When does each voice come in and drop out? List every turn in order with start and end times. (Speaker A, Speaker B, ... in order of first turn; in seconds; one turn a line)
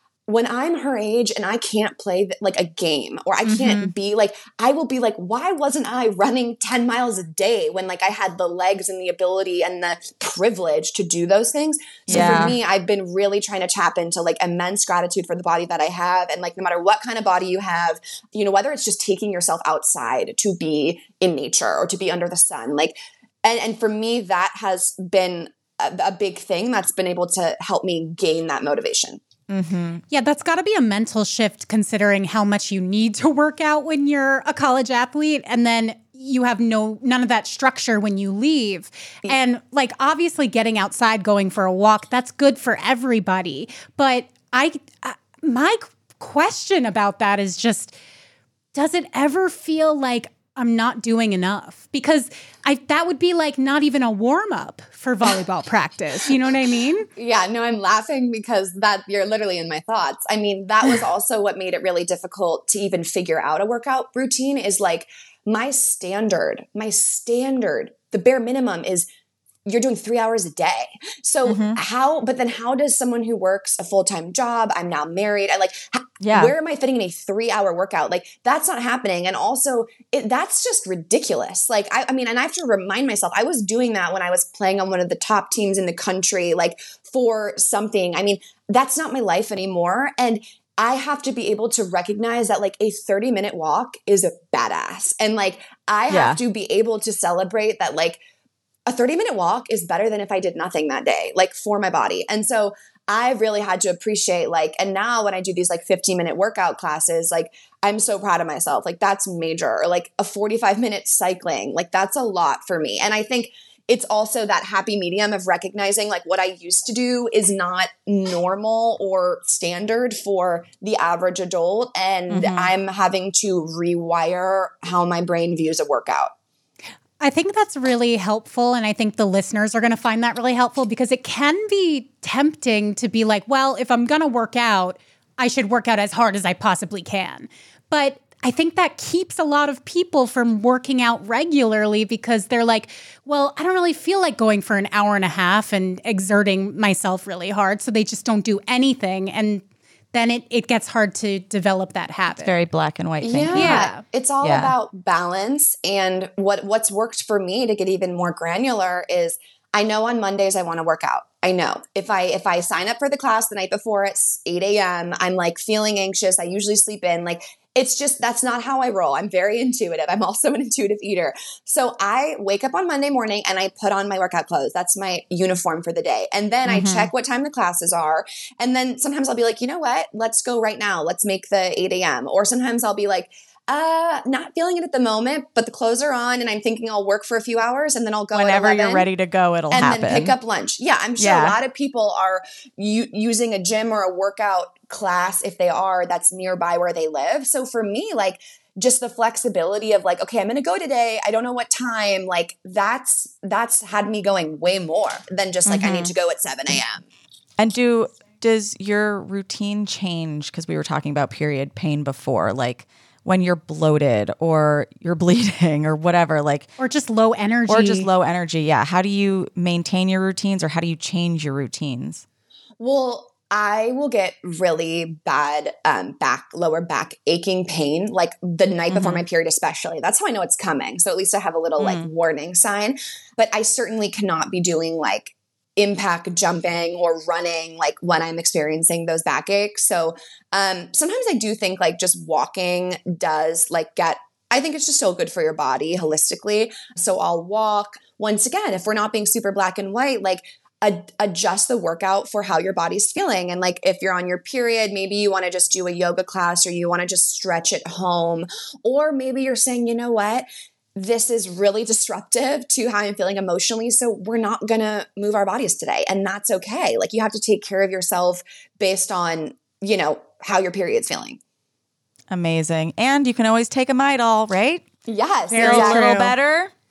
Speaker A: 0.3-29.2
Speaker B: 3.5-3.9
Speaker B: 12.1-12.6
Speaker B: 29.5-30.0
Speaker C: 30.1-48.0
Speaker C: 48.7-57.1
Speaker A: 57.2-69.1
Speaker A: 69.7-98.2
Speaker B: 71.5-71.8
Speaker B: 76.2-76.5
Speaker B: 96.1-96.4
Speaker A: 98.9-126.3
Speaker B: 122.3-122.7
Speaker C: 127.2-152.5
Speaker B: 152.4-153.9
Speaker A: 153.2-189.1
Speaker C: 153.5-154.0
Speaker B: 154.4-154.7
Speaker B: 176.7-177.1
Speaker B: 188.3-190.3
Speaker A: 189.7-207.1
Speaker B: 191.2-191.6
Speaker B: 205.7-206.1
Speaker B: 207.6-216.7
Speaker C: 216.8-218.1
Speaker B: 217.7-222.2
Speaker A: 222.8-271.4
Speaker B: 228.9-229.2
Speaker B: 231.8-232.1
Speaker B: 272.3-274.9
Speaker A: 275.1-276.1
Speaker C: 275.5-276.4
Speaker B: 275.6-276.7